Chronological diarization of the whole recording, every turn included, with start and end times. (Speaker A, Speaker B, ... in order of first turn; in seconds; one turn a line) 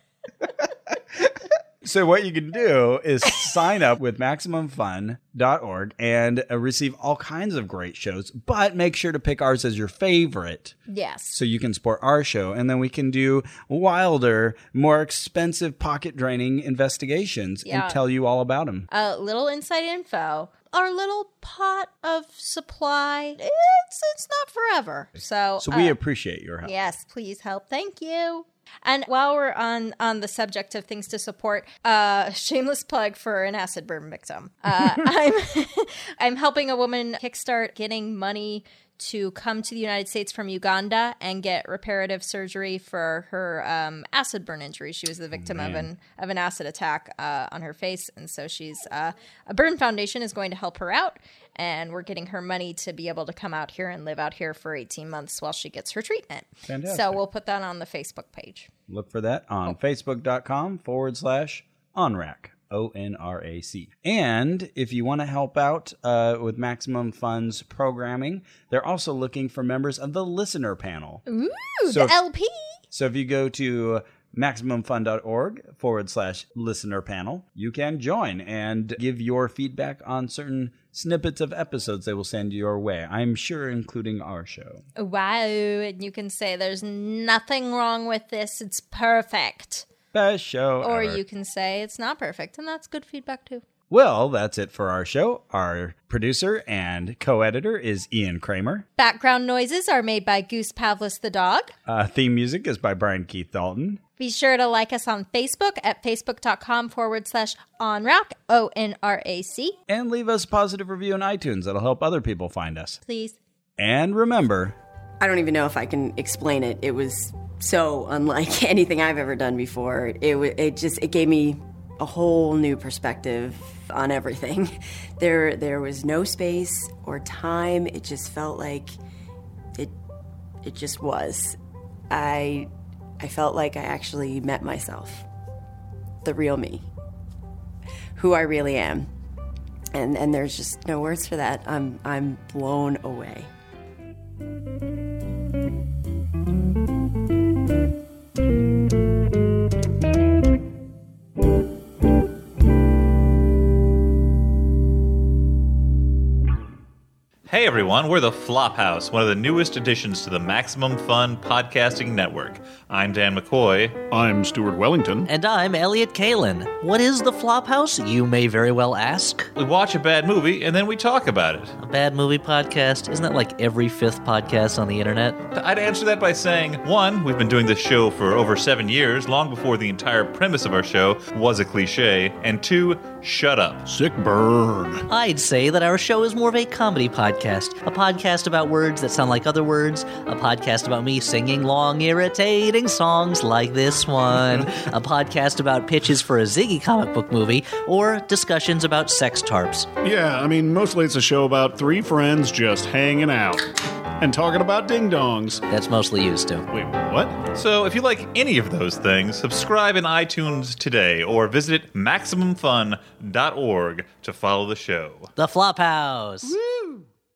Speaker A: 0.4-10.8
Speaker B: 10.9-11.4
Speaker A: 11.3-18.9
Speaker B: 17.6-18.0
Speaker B: 18.9-25.9
Speaker A: 25.6-26.8
Speaker B: 26.6-58.7
Speaker A: 45.4-45.9
Speaker A: 56.6-57.2
Speaker A: 58.9-71.2
Speaker B: 71.3-72.8
Speaker A: 71.8-72.2
Speaker A: 72.9-84.8
Speaker B: 85.0-89.9
Speaker A: 90.1-91.2
Speaker B: 90.8-93.6
Speaker A: 93.9-98.8
Speaker B: 99.0-101.7
Speaker A: 101.8-104.0
Speaker B: 104.2-109.8
Speaker A: 109.9-113.0
Speaker B: 113.0-113.4
Speaker A: 113.8-114.8
Speaker C: 115.2-129.0
Speaker C: 130.6-131.6
Speaker C: 132.1-135.2
Speaker C: 136.2-136.8
Speaker C: 138.2-139.1
Speaker C: 139.9-143.5
Speaker D: 157.5-164.0
Speaker E: 164.1-165.3
Speaker F: 165.2-169.5
Speaker D: 169.5-171.8
Speaker F: 171.8-175.4
Speaker D: 175.5-183.9
Speaker E: 183.9-185.0
Speaker F: 185.1-199.9
Speaker E: 200.0-203.7
Speaker E: 204.2-205.6
Speaker F: 205.7-206.7
Speaker E: 206.7-207.3
Speaker D: 207.5-215.3
Speaker F: 215.3-216.6